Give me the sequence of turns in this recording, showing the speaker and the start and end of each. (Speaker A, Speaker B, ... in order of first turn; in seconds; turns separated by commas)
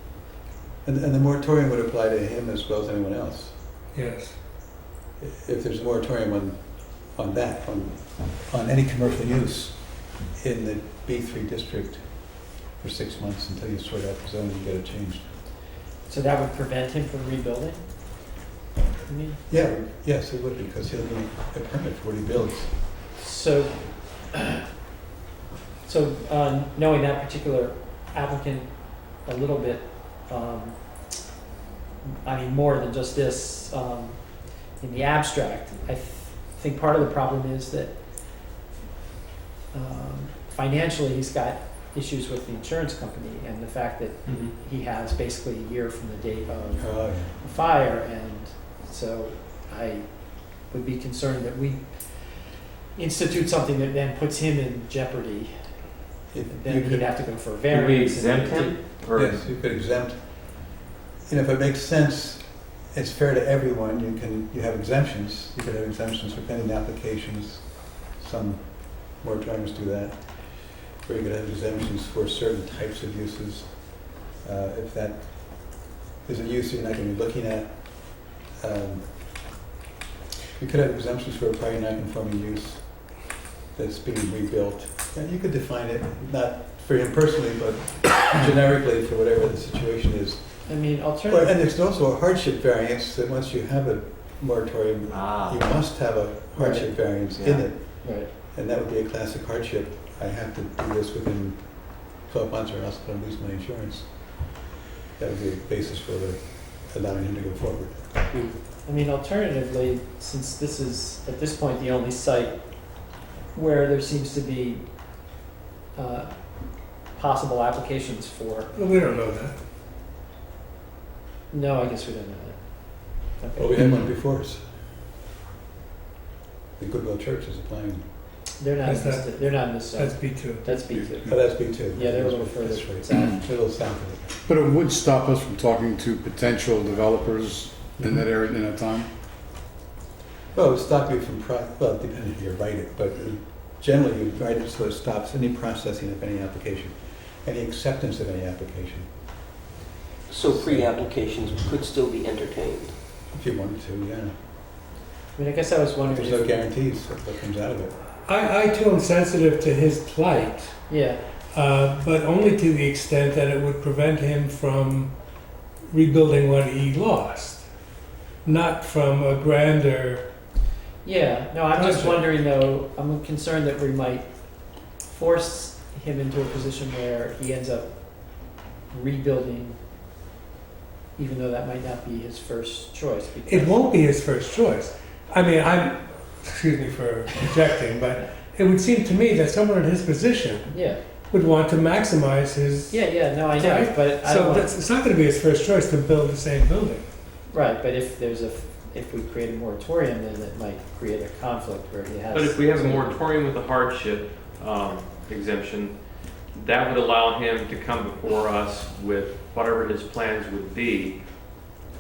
Speaker A: 0.8-3.6, Speaker B: 3.9-4.4, Speaker A: 5.2-15.3, Speaker C: 16.1-17.8, Speaker C: 19.1-19.4, Speaker A: 19.5-22.9, Speaker C: 23.1-24.6, Speaker C: 25.9-30.8, Speaker C: 32.2-34.2, Speaker C: 34.8-37.9, Speaker C: 39.7-55.5, Speaker D: 44.3-44.5, Speaker A: 46.8-47.4, Speaker A: 56.3-57.1, Speaker C: 56.5-58.8, Speaker D: 57.7-59.5, Speaker A: 59.1-60.7, Speaker A: 61.3-79.3, Speaker A: 80.6-104.5, Speaker C: 90.7-91.6, Speaker D: 95.1-95.7, Speaker C: 96.5-97.0, Speaker D: 97.3-97.7, Speaker C: 98.0-98.3, Speaker A: 105.2-108.1, Speaker E: 108.3-108.6, Speaker C: 108.8-112.6, Speaker C: 113.5-114.8, Speaker C: 116.0-118.8, Speaker B: 118.7-119.6, Speaker C: 121.5-123.7, Speaker A: 123.6-124.6, Speaker F: 123.8-124.1, Speaker A: 126.8-128.1, Speaker C: 128.6-133.5, Speaker B: 128.8-130.8, Speaker A: 131.2-134.4, Speaker F: 134.5-139.1, Speaker A: 140.5-149.2, Speaker E: 150.3-152.9, Speaker A: 150.5-150.9, Speaker A: 153.3-154.4, Speaker C: 155.3-156.6, Speaker A: 156.1-157.9, Speaker B: 158.2-160.9, Speaker C: 160.9-161.2, Speaker B: 161.5-165.3, Speaker B: 165.9-167.7, Speaker B: 168.4-170.3, Speaker C: 171.0-174.3, Speaker B: 171.8-172.2, Speaker C: 175.0-179.8, Speaker C: 181.2-183.9, Speaker B: 183.5-190.8, Speaker C: 190.7-191.0, Speaker B: 191.3-197.1, Speaker C: 192.9-194.7, Speaker C: 197.5-203.2, Speaker D: 202.3-206.0, Speaker D: 206.5-211.2